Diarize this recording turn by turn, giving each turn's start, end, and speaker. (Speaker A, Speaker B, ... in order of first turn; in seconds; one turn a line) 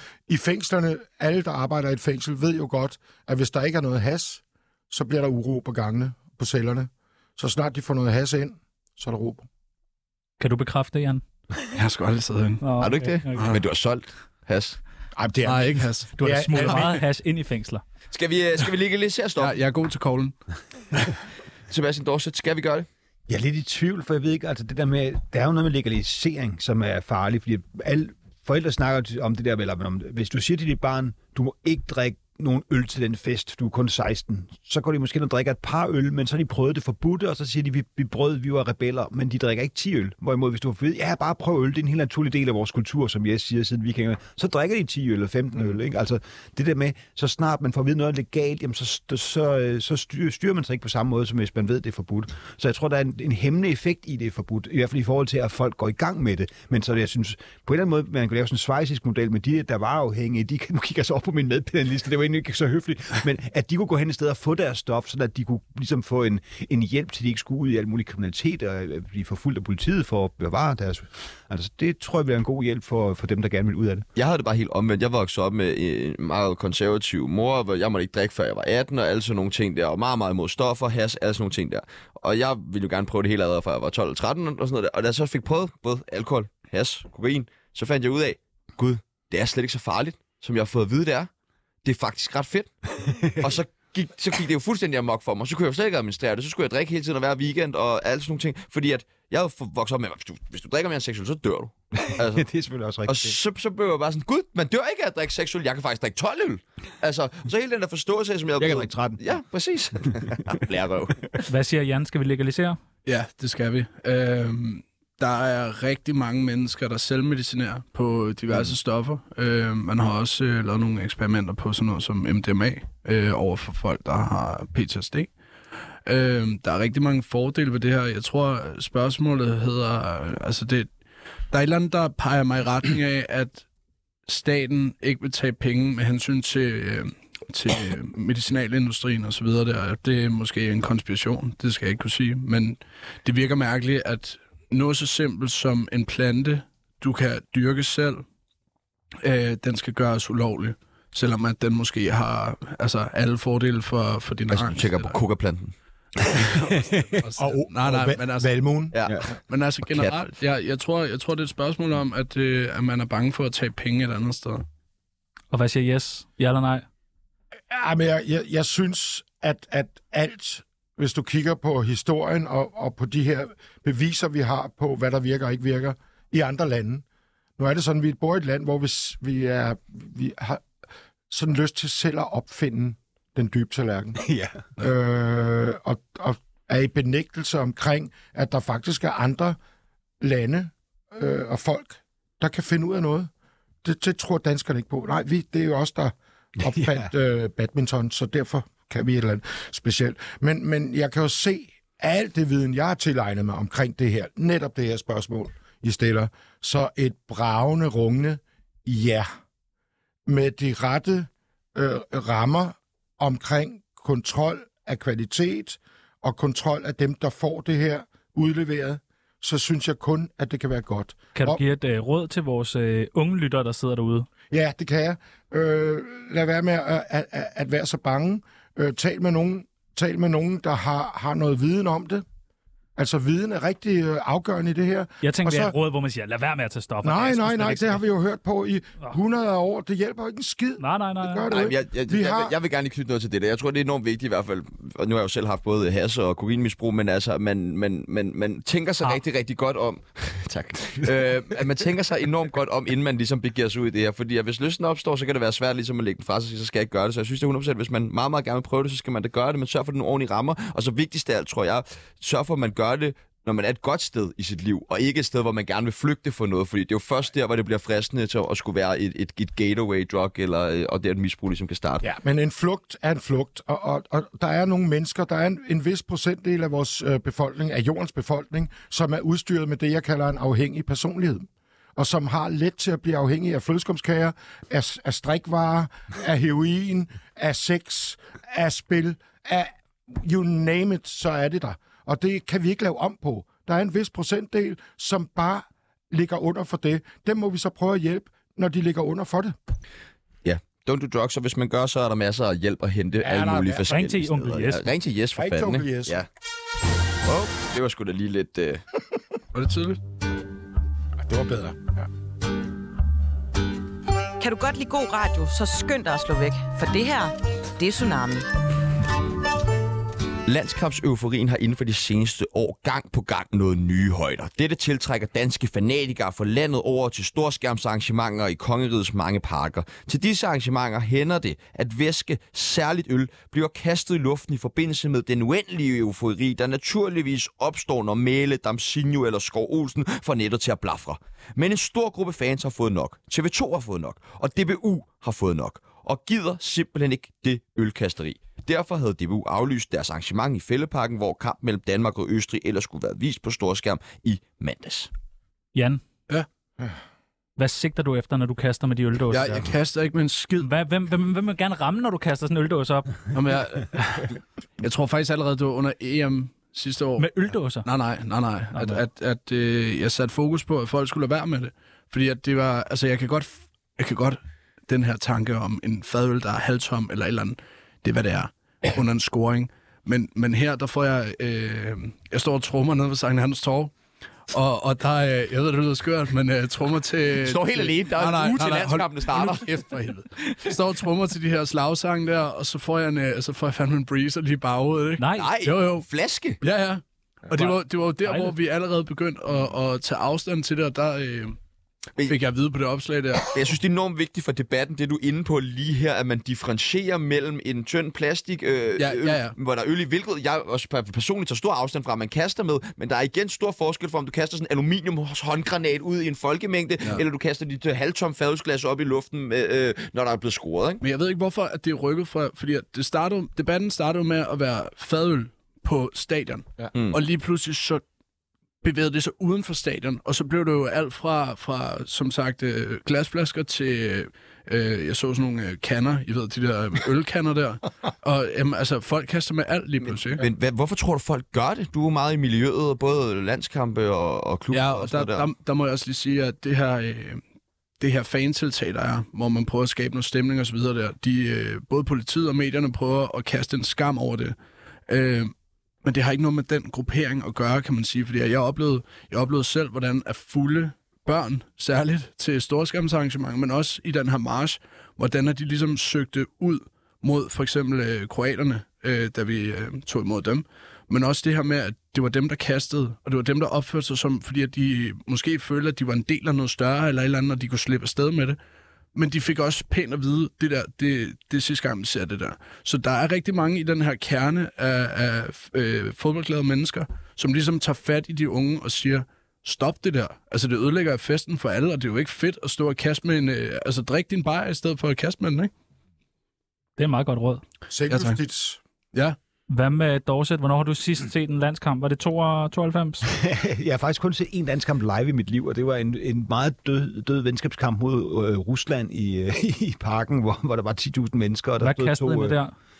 Speaker A: 0.3-9.4
Speaker B: 10.4-11.2
Speaker C: 11.7-12.6
Speaker B: 12.6-13.5
Speaker D: 12.8-14.8
Speaker C: 13.3-13.6
Speaker A: 15.2-16.9
Speaker C: 15.4-16.9
Speaker B: 16.2-17.8
Speaker D: 18.1-19.6
Speaker C: 19.4-20.3
Speaker D: 21.7-22.9
Speaker E: 23.3-74.0
Speaker D: 74.2-91.3
Speaker D: 91.8-92.7
Speaker E: 93.1-93.5
Speaker D: 93.3-102.5
Speaker E: 102.0-103.4
Speaker D: 103.0-111.3
Speaker E: 108.6-109.2
Speaker B: 111.5-112.8
Speaker C: 113.0-125.3
Speaker C: 126.0-130.9
Speaker C: 131.5-133.6
Speaker C: 134.2-148.2
Speaker C: 149.2-155.2
Speaker D: 154.5-155.7
Speaker C: 156.2-158.5
Speaker E: 156.6-157.2
Speaker A: 157.4-158.9
Speaker D: 158.9-159.2
Speaker C: 159.5-164.6
Speaker B: 165.5-166.9
Speaker A: 167.7-177.0
Speaker A: 177.6-180.6
Speaker A: 181.3-184.2
Speaker E: 184.2-184.6
Speaker A: 184.8-189.6
Speaker A: 190.2-193.3
Speaker A: 193.8-209.3
Speaker E: 196.6-197.1
Speaker A: 210.2-221.6
Speaker B: 221.3-224.3
Speaker A: 224.5-232.2
Speaker A: 232.9-235.7
Speaker B: 235.2-238.0
Speaker A: 237.0-242.5
Speaker B: 240.8-241.5
Speaker D: 241.5-272.1
Speaker A: 272.0-299.6
Speaker D: 300.4-306.3
Speaker A: 303.2-303.9
Speaker B: 303.9-304.9
Speaker A: 305.4-306.2
Speaker D: 307.2-308.8
Speaker C: 309.5-310.0
Speaker A: 311.2-312.1
Speaker F: 314.4-318.5
Speaker D: 320.4-355.1
Speaker B: 355.7-356.0
Speaker B: 357.6-359.6
Speaker C: 359.3-360.7
Speaker B: 360.6-363.2
Speaker C: 363.3-383.9
Speaker B: 367.2-367.9
Speaker B: 368.7-369.0
Speaker C: 384.5-396.0
Speaker D: 387.3-389.8
Speaker B: 395.2-395.5
Speaker D: 395.4-396.6
Speaker C: 396.6-401.6
Speaker B: 398.2-398.5
Speaker C: 402.3-403.6
Speaker D: 403.4-421.0
Speaker C: 409.0-409.6
Speaker C: 421.0-428.0
Speaker D: 426.9-427.2
Speaker C: 428.8-440.4
Speaker D: 440.4-445.5
Speaker C: 444.7-447.4
Speaker C: 448.0-454.5
Speaker C: 455.1-455.5
Speaker C: 456.0-478.6
Speaker C: 479.1-495.7
Speaker B: 497.0-497.6
Speaker A: 497.9-498.8
Speaker C: 498.1-498.4
Speaker B: 499.7-503.3
Speaker E: 503.3-512.6
Speaker B: 511.8-512.7